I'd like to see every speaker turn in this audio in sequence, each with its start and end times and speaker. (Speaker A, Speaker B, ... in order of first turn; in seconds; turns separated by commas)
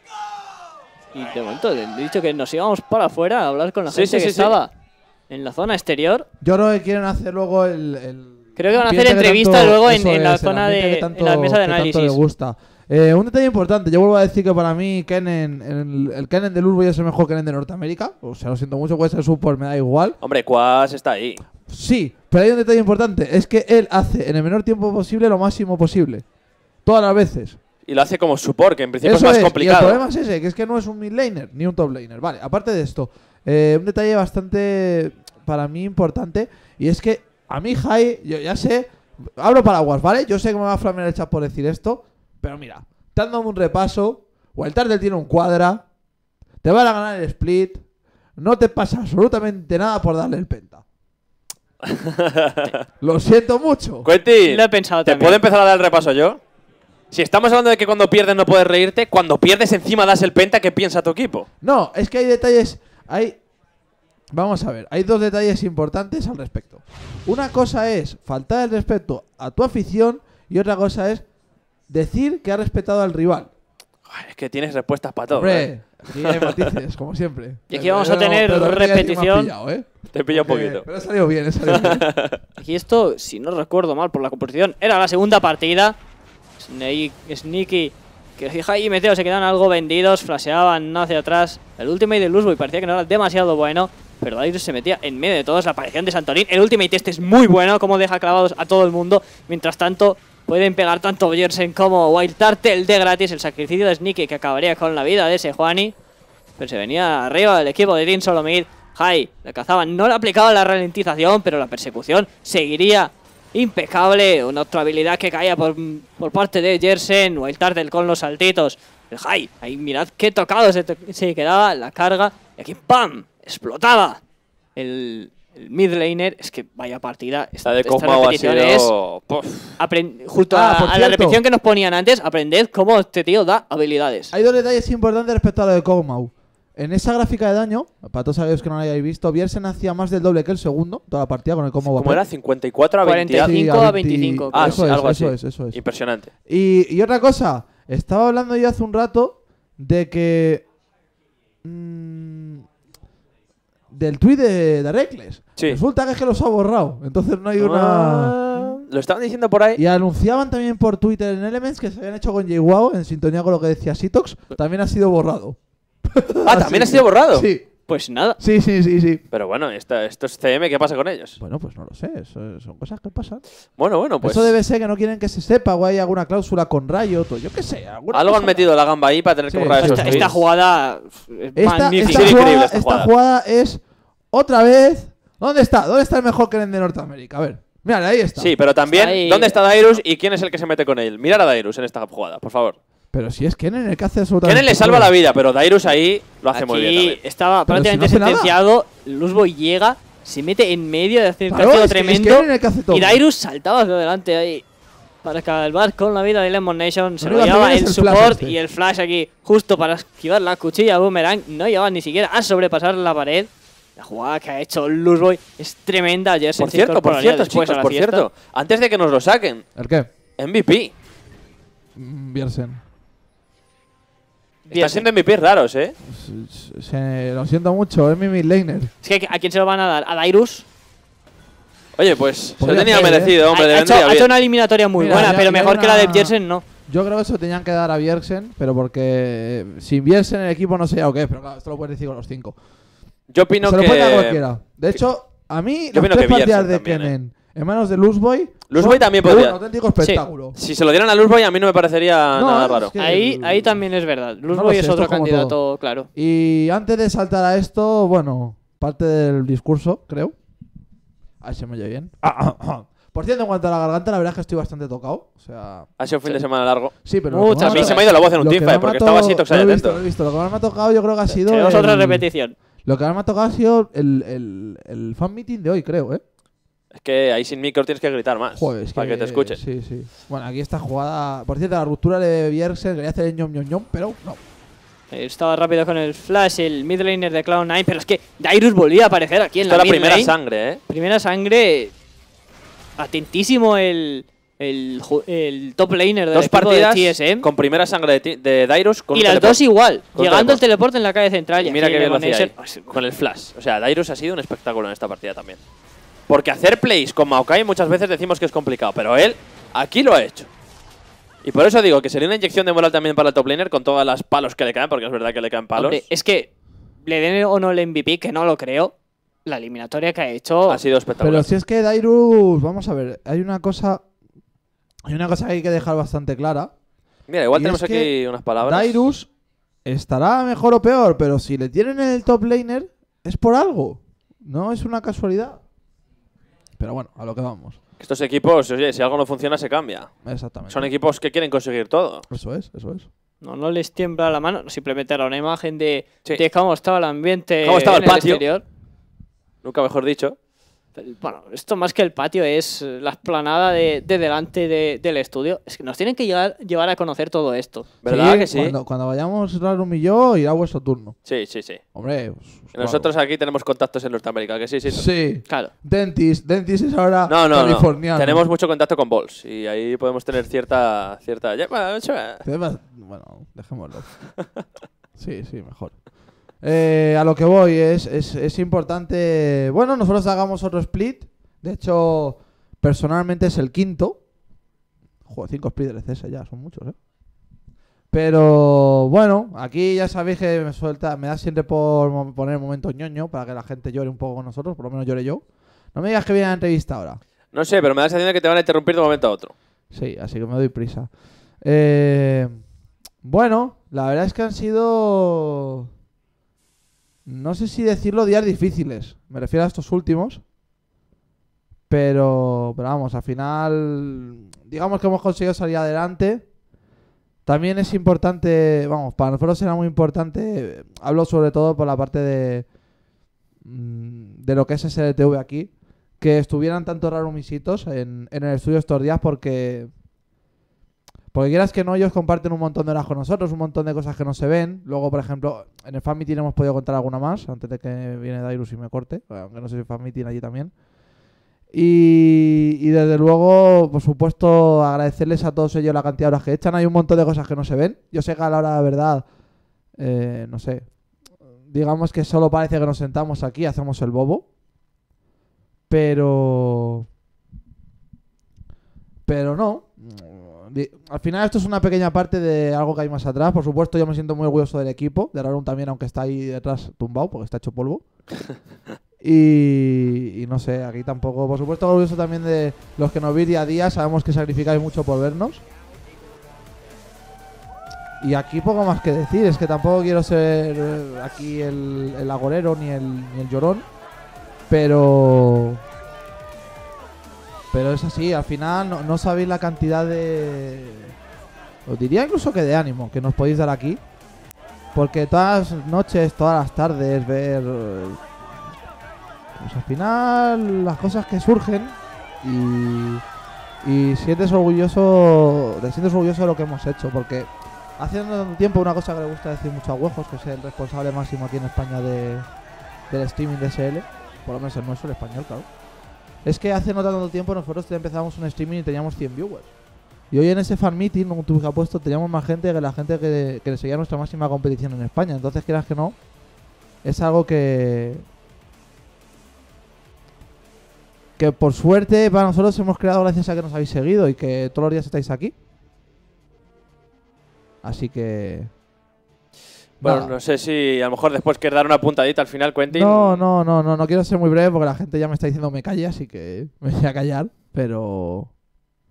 Speaker A: 1.1-4.7, Speaker B: 3.9-4.6, Speaker A: 5.3-6.3, Speaker C: 6.4-20.2, Speaker A: 8.6-12.2, Speaker B: 20.2-21.4, Speaker C: 21.7-26.2, Speaker C: 26.8-27.6, Speaker B: 27.9-30.0, Speaker C: 29.0-45.9, Speaker C: 46.6-47.8, Speaker C: 48.4-50.8, Speaker B: 51.8-52.8, Speaker C: 53.0-54.1, Speaker B: 54.0-56.4, Speaker A: 54.4-55.4, Speaker B: 57.1-61.5, Speaker C: 61.6-63.4, Speaker C: 64.3-71.2, Speaker C: 71.9-73.5, Speaker B: 74.1-76.7, Speaker C: 75.3-82.1, Speaker A: 77.7-79.5, Speaker B: 80.1-80.8, Speaker B: 81.7-82.4, Speaker A: 82.6-86.0, Speaker A: 86.6-105.9, Speaker A: 106.6-124.2, Speaker A: 124.8-128.9, Speaker B: 127.6-129.8, Speaker A: 129.8-134.3, Speaker C: 130.5-131.4, Speaker C: 134.3-142.2, Speaker B: 141.9-143.6, Speaker A: 143.0-144.8, Speaker C: 143.3-145.8, Speaker B: 144.5-146.3, Speaker C: 146.4-150.7, Speaker C: 151.6-152.7, Speaker C: 153.9-158.7, Speaker B: 157.6-159.8, Speaker C: 159.7-167.7, Speaker B: 166.4-167.4, Speaker A: 167.9-168.4, Speaker C: 168.4-169.2, Speaker B: 169.3-171.4, Speaker C: 171.4-173.4, Speaker B: 173.8-174.5, Speaker C: 174.2-178.7, Speaker B: 178.1-180.3, Speaker C: 179.5-180.4, Speaker A: 179.8-182.4, Speaker C: 181.6-188.6, Speaker B: 182.1-183.1, Speaker B: 188.4-192.8, Speaker A: 188.9-189.6, Speaker C: 193.1-195.1, Speaker B: 194.4-197.2, Speaker A: 196.5-204.6, Speaker C: 197.7-198.6, Speaker C: 201.5-203.2, Speaker A: 205.2-218.3, Speaker C: 207.2-208.6, Speaker B: 216.6-219.7, Speaker C: 219.8-220.1, Speaker B: 220.4-220.9, Speaker C: 221.9-222.8, Speaker A: 224.6-225.1, Speaker B: 224.7-225.9, Speaker C: 226.0-228.9, Speaker A: 229.0-230.7, Speaker B: 232.0-234.3, Speaker C: 232.6-233.3, Speaker A: 232.8-236.6, Speaker C: 235.0-236.3, Speaker C: 236.9-242.6, Speaker B: 243.3-244.9, Speaker C: 243.6-250.6, Speaker B: 245.9-247.1, Speaker B: 248.7-249.6, Speaker B: 250.5-252.9, Speaker C: 252.3-253.9, Speaker A: 253.0-256.1, Speaker C: 254.5-255.6, Speaker C: 256.1-260.4, Speaker C: 261.4-265.9, Speaker B: 266.0-267.0, Speaker A: 267.0-268.0, Speaker C: 267.0-272.3, Speaker B: 267.6-270.0, Speaker A: 271.3-272.6, Speaker C: 272.8-276.2, Speaker B: 276.9-279.6, Speaker C: 278.5-284.4, Speaker A: 285.1-290.3, Speaker B: 289.6-290.8, Speaker A: 290.9-291.9, Speaker A: 293.0-297.5, Speaker B: 296.3-299.6, Speaker A: 299.1-302.9, Speaker B: 300.1-300.6, Speaker B: 301.6-305.6, Speaker B: 306.3-310.5, Speaker B: 311.4-316.0, Speaker A: 315.7-320.8, Speaker B: 320.7-321.5, Speaker C: 321.2-324.1, Speaker C: 325.1-326.7, Speaker B: 327.3-329.0, Speaker C: 327.5-329.3, Speaker C: 329.8-335.6, Speaker C: 336.8-337.8, Speaker B: 338.0-340.1, Speaker C: 340.2-340.9, Speaker B: 340.7-342.2, Speaker C: 342.3-343.1, Speaker A: 343.4-348.6, Speaker B: 347.6-348.4, Speaker B: 349.6-350.4, Speaker A: 351.0-357.9, Speaker B: 358.0-358.8, Speaker C: 358.0-361.2, Speaker B: 361.2-361.8, Speaker C: 361.9-363.1, Speaker B: 362.7-365.1, Speaker C: 364.9-368.4, Speaker A: 365.5-365.7, Speaker B: 367.3-372.4, Speaker C: 372.4-374.3, Speaker C: 375.1-384.2, Speaker C: 385.2-387.0, Speaker C: 388.1-397.2, Speaker B: 397.5-399.5, Speaker C: 399.9-402.6, Speaker C: 403.2-405.9, Speaker C: 407.2-410.4, Speaker C: 411.9-416.5, Speaker C: 417.4-422.7, Speaker C: 423.6-429.9, Speaker C: 431.3-440.8, Speaker C: 441.7-449.3, Speaker C: 449.9-454.5, Speaker C: 455.9-457.1, Speaker C: 459.2-468.0, Speaker C: 469.2-475.6, Speaker C: 478.2-483.9, Speaker C: 484.7-485.8, Speaker C: 487.7-491.1, Speaker C: 491.9-494.0, Speaker C: 494.9-498.2, Speaker C: 499.6-503.2, Speaker C: 503.8-512.5, Speaker C: 513.1-515.7, Speaker C: 516.4-519.7, Speaker C: 520.3-526.3, Speaker C: 527.0-528.2, Speaker C: 531.4-535.5, Speaker C: 537.8-538.7, Speaker B: 540.0-543.4, Speaker C: 540.0-540.3, Speaker C: 542.9-548.5